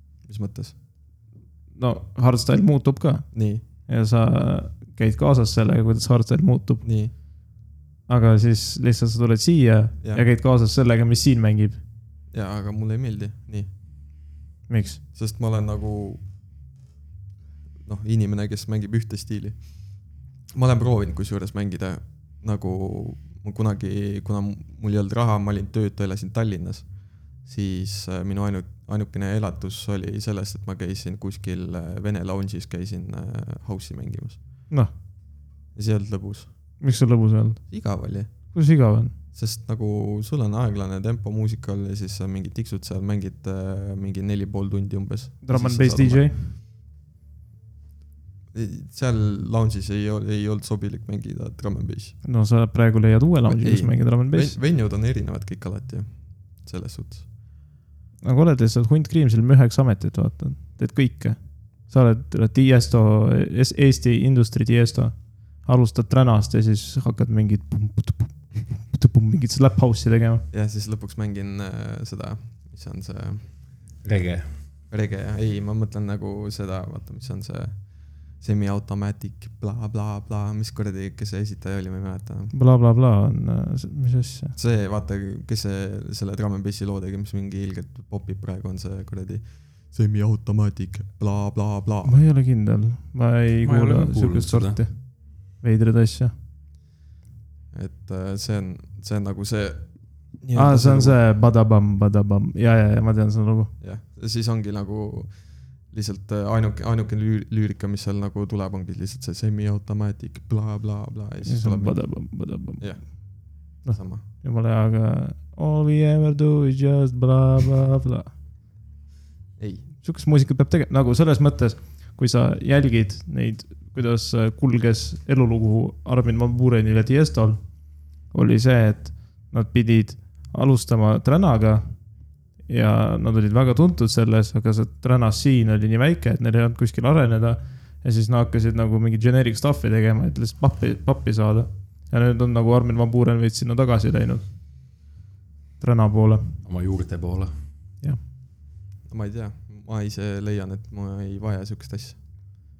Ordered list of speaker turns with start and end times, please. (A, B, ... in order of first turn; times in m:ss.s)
0:00.2-0:00.8 A
0:01.8-0:03.3 B
0:03.3-0:03.6 A
0:03.9-0:06.8 B
0:06.8-0:07.1 A
0:08.1-0:11.8 B
0:12.3-0:13.7 A
0:14.7-0:15.0 B
0:15.2-0:16.2 A
0:17.8-0:19.7 A
0:20.5-0:26.9 A
0:27.4-0:34.4 A
0:35.8-0:36.5 A
0:36.8-0:37.7 B
0:37.7-0:38.3 A
0:38.5-0:39.1 B
0:39.3-0:46.3 A
0:45.4-0:46.4 B
0:48.5-0:52.2 A
0:52.2-0:54.6 B
0:53.4-0:57.3 A
0:58.2-1:10.4 B
1:10.5-1:13.6 A
1:14.0-1:14.5 C
1:14.9-1:22.5 A
1:22.5-1:24.6 B
1:24.6-1:32.2 A
1:32.0-1:36.3 B
1:33.6-1:34.8 C
1:37.7-1:41.2 A
1:40.6-1:43.7 B
1:43.8-1:54.2 A
1:51.4-1:58.3 B
1:59.6-1:59.9 A
2:00.0-2:07.6 B
2:08.3-2:11.9 B
2:12.7-2:24.5 B
2:25.8-2:26.6 B
2:26.6-2:27.5 C
2:29.1-2:32.2 A